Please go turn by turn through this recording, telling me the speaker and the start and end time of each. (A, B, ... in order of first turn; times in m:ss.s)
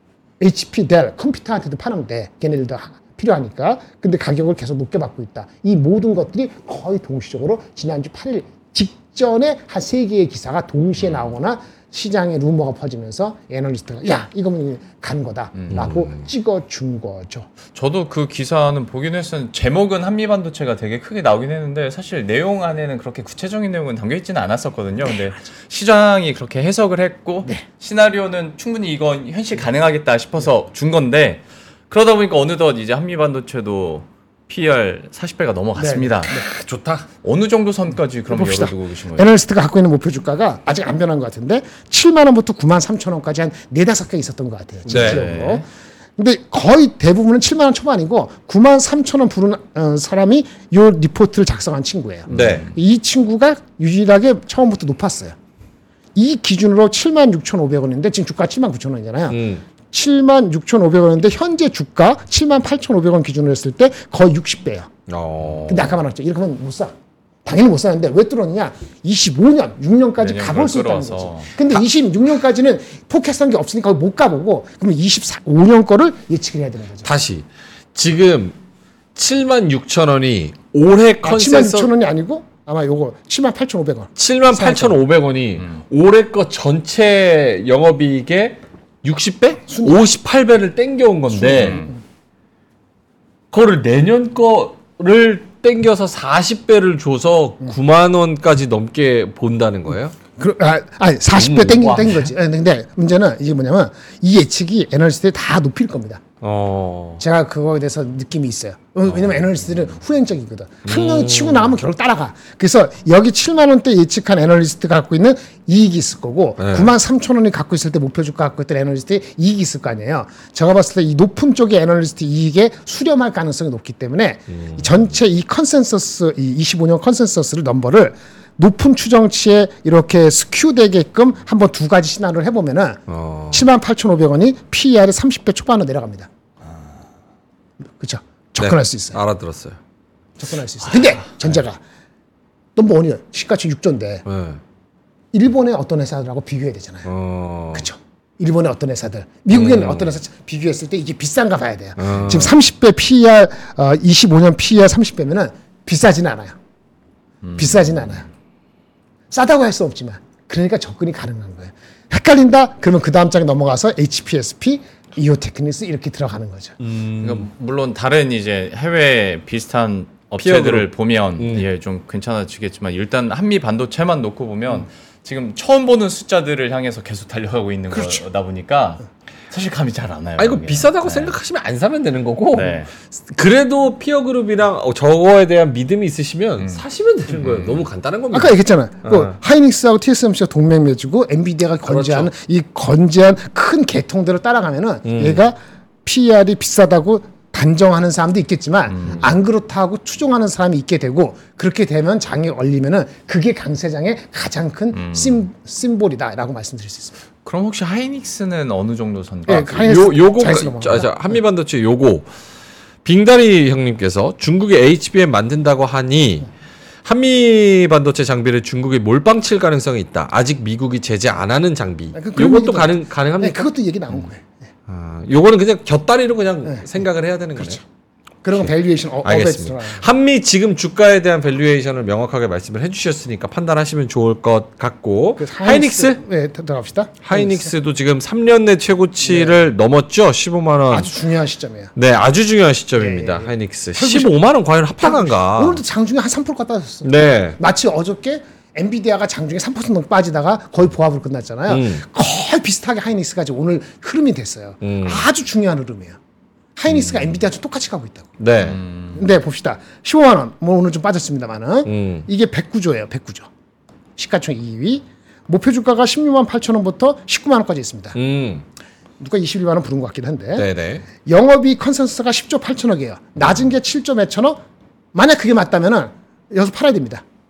0:00.4-0:17.5 A
0:15.6-0:15.9 B
0:15.7-0:16.2 C
0:17.8-0:36.4 B
0:35.8-0:36.5 A
0:36.5-0:37.1 C
0:37.2-0:39.3 B
0:38.3-0:45.6 A
0:44.9-0:45.6 B
0:44.9-0:45.2 C
0:46.2-0:55.4 A
0:52.3-0:52.7 B
0:52.3-0:52.7 C
0:56.2-0:59.4 A
0:59.3-0:59.6 C
0:59.9-1:04.9 A
1:05.1-1:05.9 C
1:05.7-1:06.9 A
1:07.4-1:17.1 A
1:10.2-1:11.6 B
1:17.0-1:18.6 C
1:19.2-1:21.9 C
1:21.2-1:25.0 A
1:24.2-1:31.9 C
1:29.7-1:30.1 A
1:31.3-1:32.0 A
1:31.5-1:31.9 B
1:33.5-1:40.2 C
1:40.4-1:46.2 A
1:41.3-1:42.3 C
1:46.4-1:47.2 C
1:47.2-2:13.0 A
1:50.8-1:51.8 C
1:56.6-1:56.9 C
2:04.5-2:05.0 C
2:13.1-2:13.7 C
2:13.5-2:16.3 A
2:18.0-2:19.2 A
2:18.6-2:19.8 C
2:20.4-2:21.8 A
2:22.8-2:24.2 A
2:24.3-2:24.6 C
2:25.3-2:27.1 A
2:27.0-2:27.9 C
2:27.7-2:36.6 A
2:29.5-2:30.2 C
2:32.0-2:32.6 C
2:37.4-2:38.2 B
2:37.6-2:38.3 A
2:39.3-2:46.8 A
2:46.8-2:47.5 C
2:47.2-3:01.4 B
2:50.4-2:51.7 C
2:57.9-2:58.2 A
3:00.4-3:09.4 C
3:02.5-3:02.9 B
3:06.6-3:07.9 B
3:08.3-3:27.2 A
3:11.9-3:12.3 C
3:15.1-3:15.4 C
3:18.9-3:19.3 B
3:24.9-3:25.4 B
3:27.4-3:29.9 B
3:29.5-3:31.1 A
3:29.5-3:32.3 C
3:33.0-3:36.5 C
3:37.0-3:44.3 C
3:42.1-3:44.5 A
3:44.9-3:47.8 C
3:46.6-3:47.0 A
3:47.6-3:47.8 A
3:48.4-3:50.1 A
3:49.2-3:56.2 C
3:55.4-3:57.7 A
3:57.2-4:01.1 C
3:59.2-3:59.6 A
4:00.9-4:01.9 A
4:02.0-4:05.8 C
4:03.0-4:04.3 A
4:05.0-4:16.2 A
4:07.0-4:07.6 C
4:11.7-4:12.0 C
4:14.8-4:15.2 C
4:16.8-4:18.3 A
4:16.9-4:17.4 C
4:18.4-4:18.8 C
4:18.6-4:19.2 B
4:19.1-4:23.5 A
4:21.9-4:22.3 C
4:24.2-4:28.2 A
4:28.2-4:28.6 C
4:29.2-4:34.6 A
4:30.6-4:31.0 C
4:35.1-4:37.2 A